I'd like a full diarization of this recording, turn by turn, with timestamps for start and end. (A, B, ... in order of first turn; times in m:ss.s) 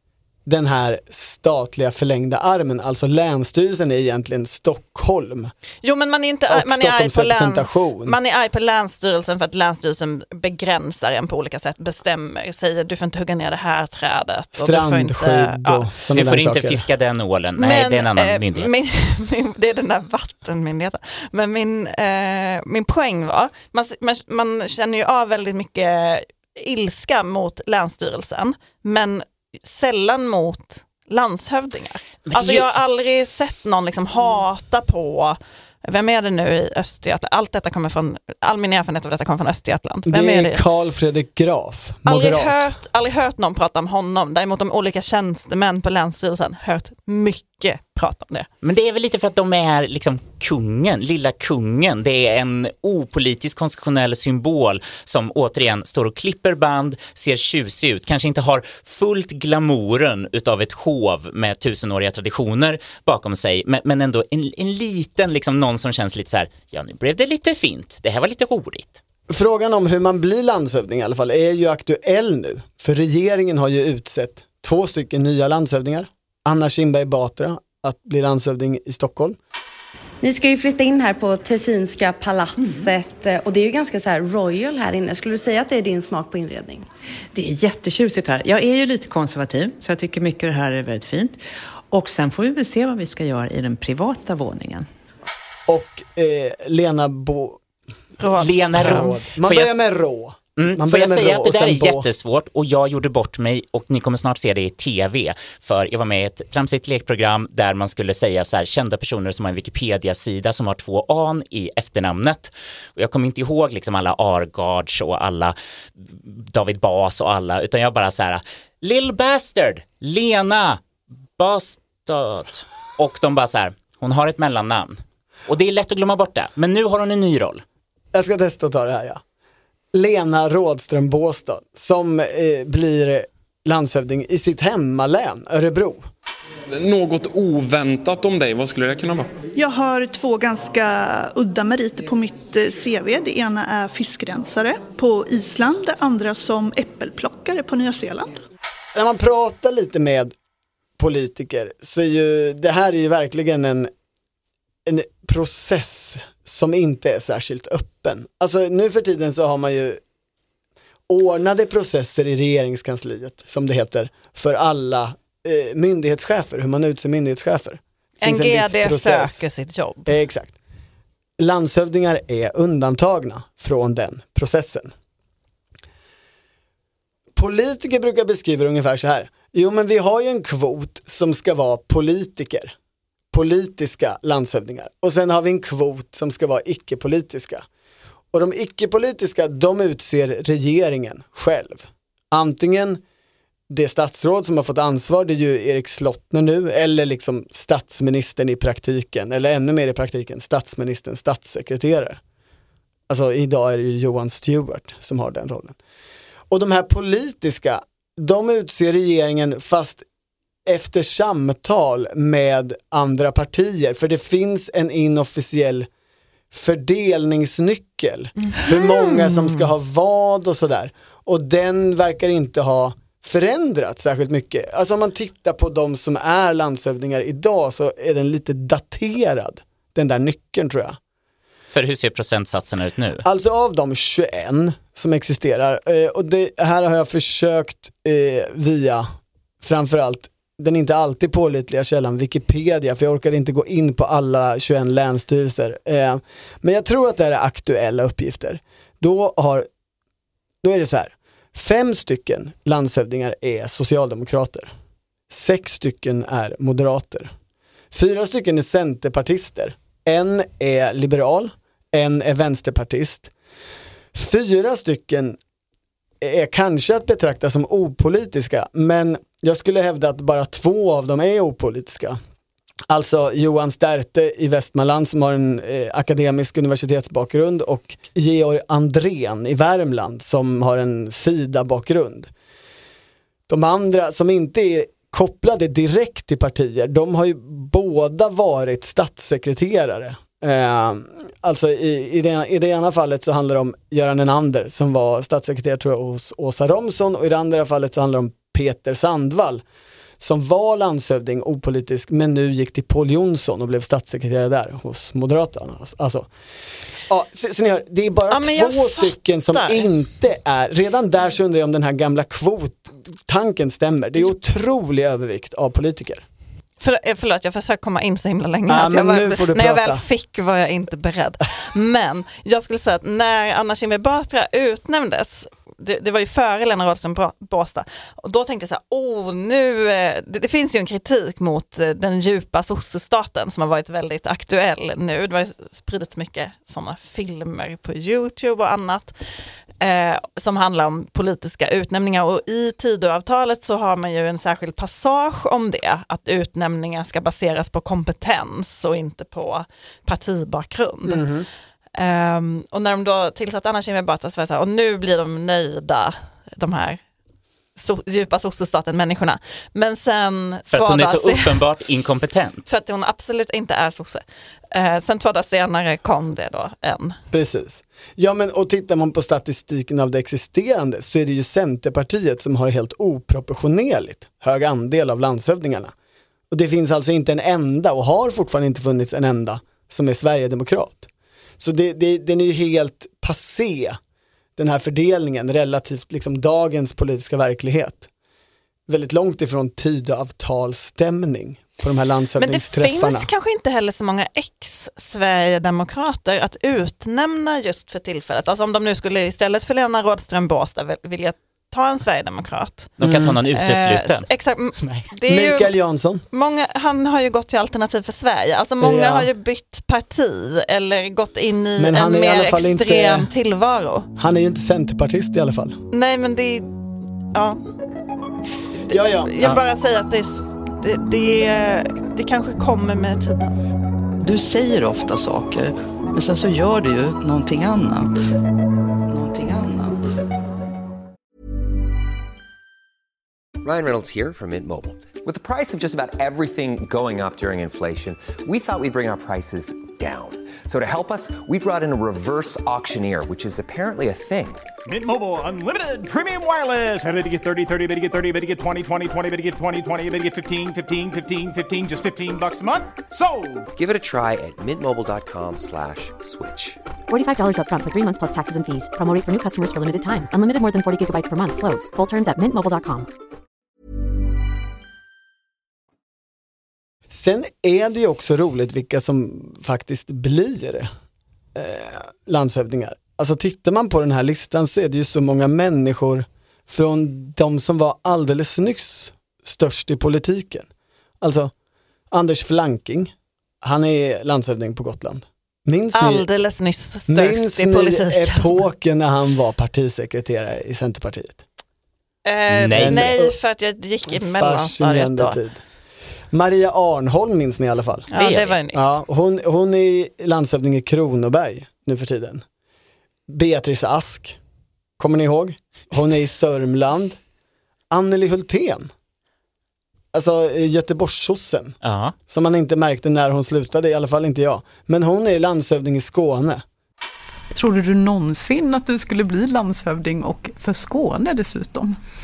0:00.4-0:05.5 A
0:05.8-0:15.8 B
0:06.5-0:08.2 A
0:14.5-0:16.8 A
0:16.2-0:18.7 C
0:17.6-0:40.6 B
0:32.3-0:32.6 C
0:40.1-0:42.7 A
0:42.0-0:48.5 B
0:48.6-1:09.0 C
1:09.3-1:19.4 A
1:20.2-1:26.9 D
1:27.3-1:34.9 E
1:35.7-1:37.6 A
1:38.2-1:39.1 B
1:38.4-1:39.8 C
1:38.7-1:42.1 A
1:40.6-2:00.8 C
2:01.4-2:07.6 C
2:08.1-2:09.2 A
2:09.9-2:16.1 A
2:16.7-2:19.3 F
2:19.5-2:28.4 G
2:28.9-2:30.3 A
2:31.0-2:33.9 A
2:34.8-2:40.0 A
2:41.1-2:49.4 A
2:48.2-2:50.1 B
2:50.1-2:50.6 A
2:51.4-2:54.9 A
2:57.3-3:02.7 A
3:03.3-3:07.6 A
3:08.3-3:13.0 A
3:13.7-3:22.2 A
3:23.1-3:25.8 A
3:26.5-3:30.0 A
3:30.6-3:35.9 A
3:36.5-3:51.0 A
3:51.7-3:53.2 C
3:53.2-3:59.1 A
3:59.6-4:09.7 A
4:10.6-4:14.7 A
4:15.3-4:17.3 A
4:17.9-4:23.3 A
4:24.1-4:25.4 A
4:26.2-4:32.2 A
4:32.9-4:42.3 A
4:43.5-4:59.6 A
5:00.2-5:06.3 A
5:07.1-5:16.2 A
5:08.3-5:09.9 B
5:16.8-5:39.1 B
5:18.7-5:20.0 A
5:39.8-5:51.3 B
5:51.0-5:51.5 A
5:52.0-5:57.0 B
5:57.8-6:01.6 B
6:00.7-6:02.7 C
6:02.7-6:07.2 B
6:07.3-6:15.9 A
6:16.5-6:24.0 A
6:24.6-6:28.1 A
6:28.9-6:33.3 A
6:32.4-6:45.7 B
6:43.0-6:44.2 C
6:43.0-6:43.3 A
6:44.8-6:45.0 C
6:45.3-6:46.2 A
6:46.3-6:54.1 B
6:48.8-6:49.3 A
6:51.8-6:53.3 A
6:54.2-6:55.8 A
6:55.9-6:56.7 B
6:57.3-6:57.6 B
6:58.9-6:59.3 A
6:58.9-7:03.6 B
7:04.2-7:08.1 H
7:09.1-7:10.0 H
7:13.6-7:24.7 I
7:24.8-7:33.6 J
7:33.8-7:36.8 I
7:37.1-7:43.1 K
7:47.1-7:50.9 A
7:51.5-8:00.7 A
8:01.2-8:01.5 A
8:02.1-8:06.2 A
8:05.9-8:08.6 B
8:07.1-8:11.4 A
8:12.2-8:15.4 B
8:12.5-8:13.1 C
8:12.7-8:13.3 A
8:14.1-8:15.6 A
8:16.3-8:18.1 A
8:18.1-8:19.0 B
8:18.1-8:18.6 C
8:18.7-8:22.4 A
8:23.3-8:24.4 A
8:25.0-8:27.2 A
8:27.9-8:28.9 A
8:30.1-8:31.8 A
8:31.8-8:32.1 C
8:32.3-8:36.6 A
8:37.5-8:42.0 L